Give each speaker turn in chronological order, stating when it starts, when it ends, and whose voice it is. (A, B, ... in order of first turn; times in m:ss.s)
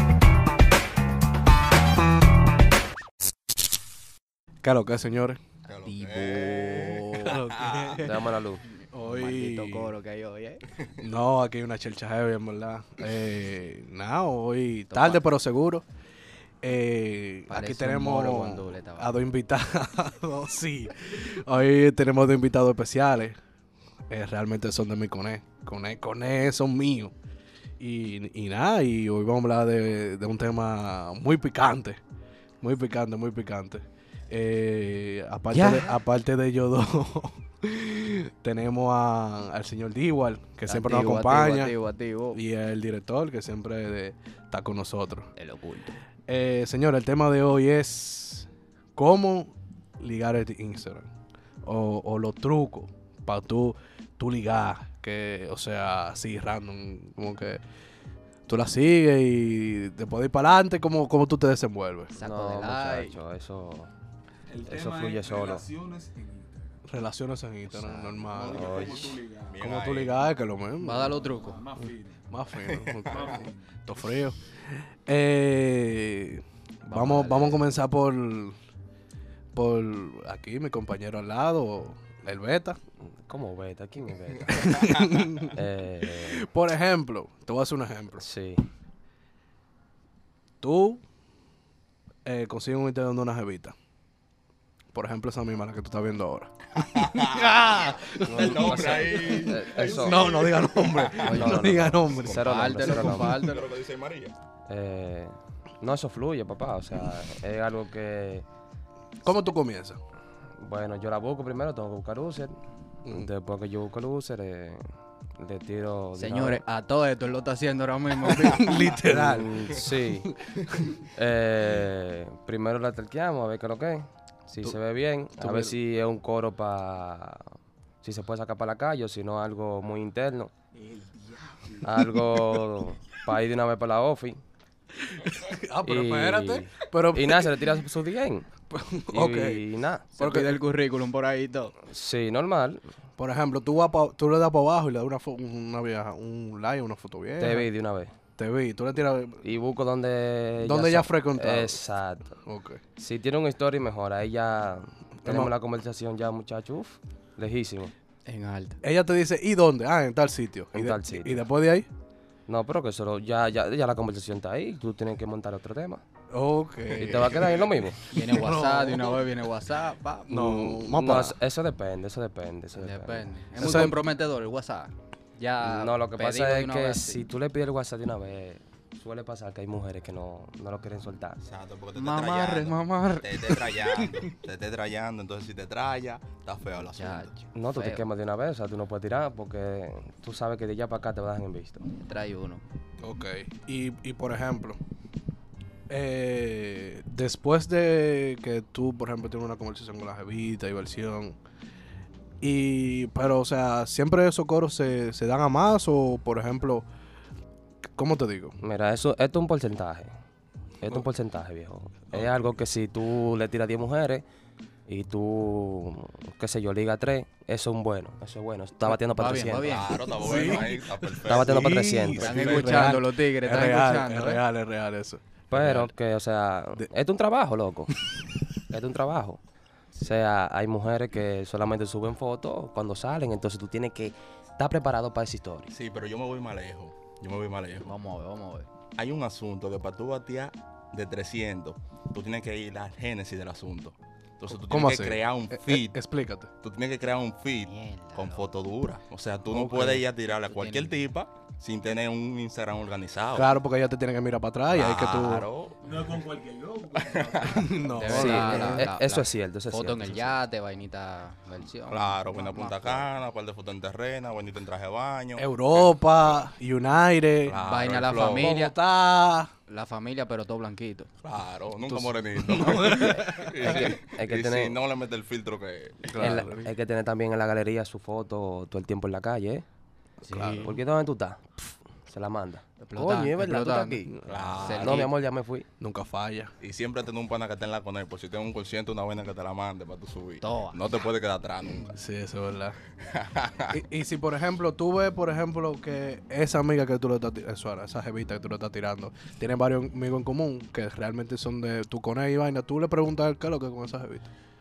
0:04.6-0:05.4 A
0:05.7-0:08.0 B
0:05.8-0:07.4 C
0:07.0-0:08.3 A
0:08.0-0:08.6 D
0:08.8-0:10.6 C
0:08.9-0:09.9 A
0:11.0-0:15.8 A
0:14.9-0:15.2 C
0:16.6-0:23.4 A
0:17.5-0:19.2 C
0:24.1-0:27.1 A
0:27.8-0:32.0 A
0:32.6-0:41.8 A
0:35.5-0:36.0 C
0:40.7-0:42.4 C
0:42.3-0:45.3 A
0:45.4-0:46.0 C
0:46.3-0:51.1 A
0:51.6-0:57.6 A
0:58.5-1:02.2 A
1:02.2-1:03.2 C
1:02.2-1:03.9 D
1:04.5-1:06.7 E
1:04.6-1:05.7 D
1:06.9-1:08.8 A
1:07.8-1:08.2 C
1:08.2-1:09.6 E
1:08.5-1:09.2 D
1:09.5-1:10.1 B
1:09.6-1:11.2 A
1:10.8-1:11.6 C
1:11.3-1:12.3 E
1:12.3-1:18.6 A
1:12.7-1:13.4 B
1:13.1-1:13.9 E
1:16.9-1:17.6 C
1:19.5-1:22.8 A
1:23.2-1:26.5 D
1:24.5-1:25.5 A
1:26.1-1:28.2 A
1:28.2-1:28.6 D
1:30.6-1:31.0 A
1:32.2-1:33.8 A
1:34.9-1:42.7 A
1:36.8-1:41.6 B
1:38.2-1:40.3 D
1:41.2-1:43.4 D
1:41.2-1:41.6 C
1:42.3-1:43.7 C
1:42.6-1:44.4 B
1:44.7-1:48.4 D
1:49.2-1:50.0 A
1:50.6-1:52.6 D
1:53.0-1:53.3 A
1:53.1-1:56.6 D
1:56.2-1:59.0 C
1:58.3-2:01.0 A
1:59.0-2:00.4 D
2:01.2-2:10.5 D
2:05.4-2:05.8 A
2:10.8-2:11.9 E
2:11.8-2:14.4 D
2:15.0-2:17.5 A
2:15.8-2:18.5 D
2:18.7-2:19.6 A
2:19.1-2:20.1 D
2:20.2-2:21.8 C
2:20.2-2:20.6 A
2:21.9-2:22.9 D
2:23.2-2:27.7 A
2:27.4-2:28.1 D
2:28.4-2:29.4 A
2:29.4-2:32.3 D
2:30.6-2:31.8 A
2:32.5-2:32.8 A
2:33.0-2:37.9 D
2:35.2-2:35.5 A
2:38.3-2:38.8 C
2:38.8-2:41.9 A
2:40.7-2:41.4 D
2:42.5-2:46.0 D
2:46.3-2:47.6 A
2:46.9-2:47.7 B
2:47.0-2:48.0 D
2:48.1-2:49.2 A
2:48.1-2:50.6 C
2:50.3-2:51.4 A
2:50.3-2:53.7 D
2:52.7-2:57.2 C
2:53.6-2:54.0 A
2:55.6-3:01.4 D
3:01.4-3:07.4 B
3:02.0-3:03.8 C
3:07.0-3:08.0 C
3:07.6-3:11.8 D
3:12.0-3:12.6 C
3:13.0-3:14.8 A
3:15.9-3:21.4 A
3:22.4-3:26.9 A
3:28.0-3:28.6 A
3:28.6-3:30.1 D
3:30.8-3:34.2 D
3:34.9-3:40.0 D
3:39.0-3:40.7 C
3:39.6-3:42.9 B
3:40.2-3:45.9 A
3:41.2-3:42.4 D
3:42.1-3:44.4 C
3:45.5-3:47.9 D
3:48.7-3:49.4 D
3:49.9-3:55.7 D
3:55.7-3:58.0 B
3:57.9-3:58.7 C
3:59.0-4:06.0 B
4:04.6-4:06.5 A
4:06.6-4:13.5 B
4:07.6-4:08.6 C
4:09.5-4:10.1 A
4:10.5-4:11.0 C
4:13.3-4:15.5 A
4:14.7-4:15.9 B
4:15.8-4:18.0 E
4:17.0-4:17.6 B
4:17.4-4:18.9 A
4:18.0-4:23.1 C
4:18.1-4:20.4 D
4:21.9-4:26.0 B
4:25.4-4:27.6 A
4:27.5-4:28.5 B
4:27.6-4:28.8 C
4:28.2-4:29.5 A
4:29.7-4:31.1 C
4:31.2-4:36.4 B
4:31.9-4:33.8 A
4:33.6-4:34.8 D
4:36.1-4:36.7 A
4:36.2-4:39.6 D
4:40.2-4:40.8 A
4:40.2-4:40.8 C
4:40.6-4:41.5 D
4:42.1-4:44.1 D
4:42.9-4:44.1 C
4:44.1-4:44.6 A
4:44.3-4:45.1 B
4:44.6-4:45.1 C
4:44.7-4:45.7 D
4:45.8-4:46.5 A
4:46.6-4:51.9 B
4:50.4-4:50.8 C
4:51.9-4:52.8 A
4:53.0-4:53.8 B
4:53.7-5:04.3 A